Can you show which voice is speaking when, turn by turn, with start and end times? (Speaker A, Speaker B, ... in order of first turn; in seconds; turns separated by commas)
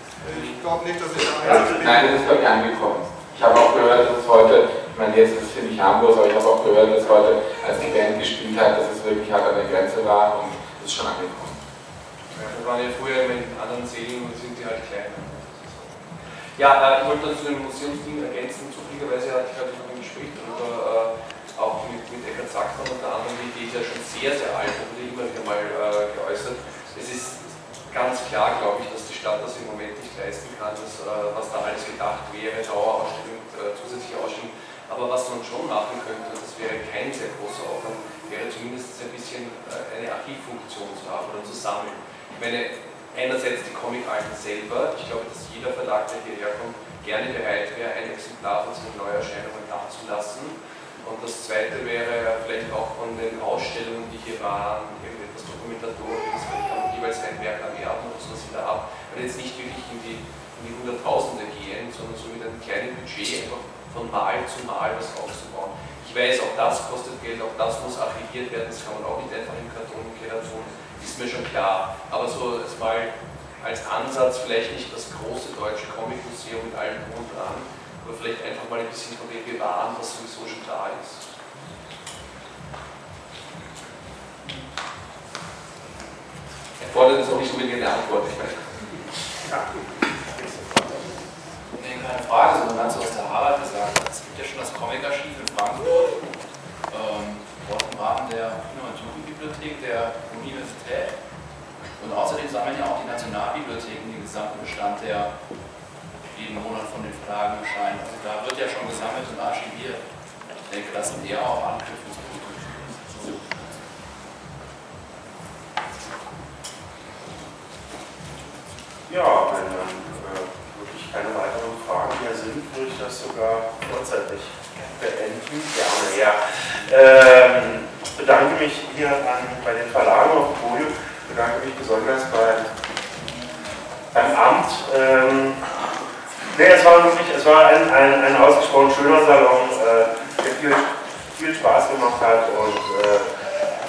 Speaker A: 0.2-2.5, Speaker B: 1.4-1.7, Speaker C: 1.4-11.6, Speaker D: 12.4-16.0, Speaker D: 16.6-81.2, Speaker D: 86.8-88.9, Speaker B: 90.3-91.1, Speaker E: 91.8-96.2, Speaker E: 96.9-101.1, Speaker E: 102.0-105.3, Speaker E: 106.3-110.0, Speaker E: 110.7-113.8, Speaker B: 119.1-132.7, Speaker B: 134.1-135.6, Speaker B: 136.5-143.3